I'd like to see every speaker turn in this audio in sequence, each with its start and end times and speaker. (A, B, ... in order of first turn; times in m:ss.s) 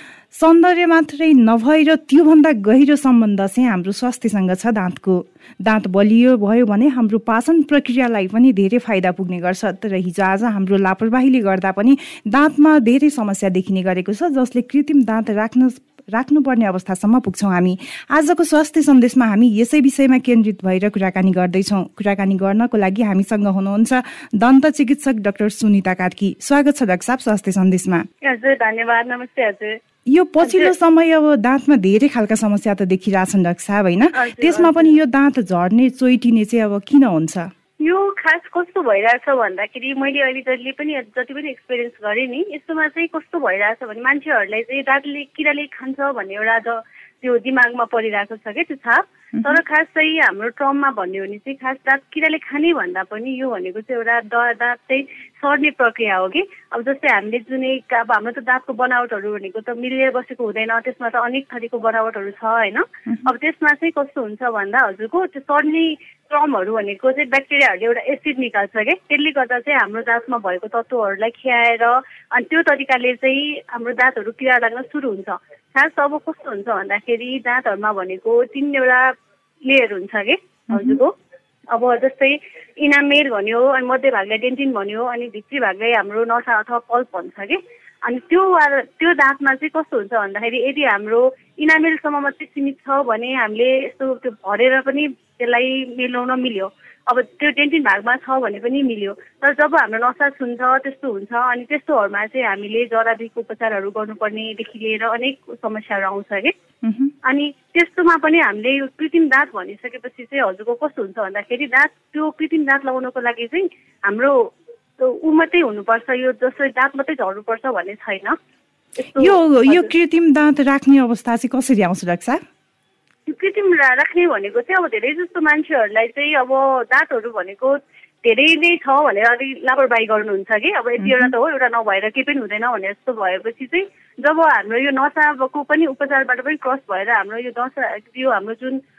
0:00.3-0:28.0 A
0:28.2-0:29.8 B
0:30.1-0:37.5 A
0:30.4-0:30.7 B
0:34.1-0:35.0 B
0:37.8-1:19.1 B
1:19.7-1:21.1 B
1:20.7-1:21.0 A
1:21.7-1:46.5 B
1:46.8-1:47.1 A
1:47.2-1:54.4 B
1:55.0-1:58.4 B
1:59.1-1:59.9 B
1:59.2-2:02.4 A
2:03.3-2:18.8 B
2:11.0-2:11.3 A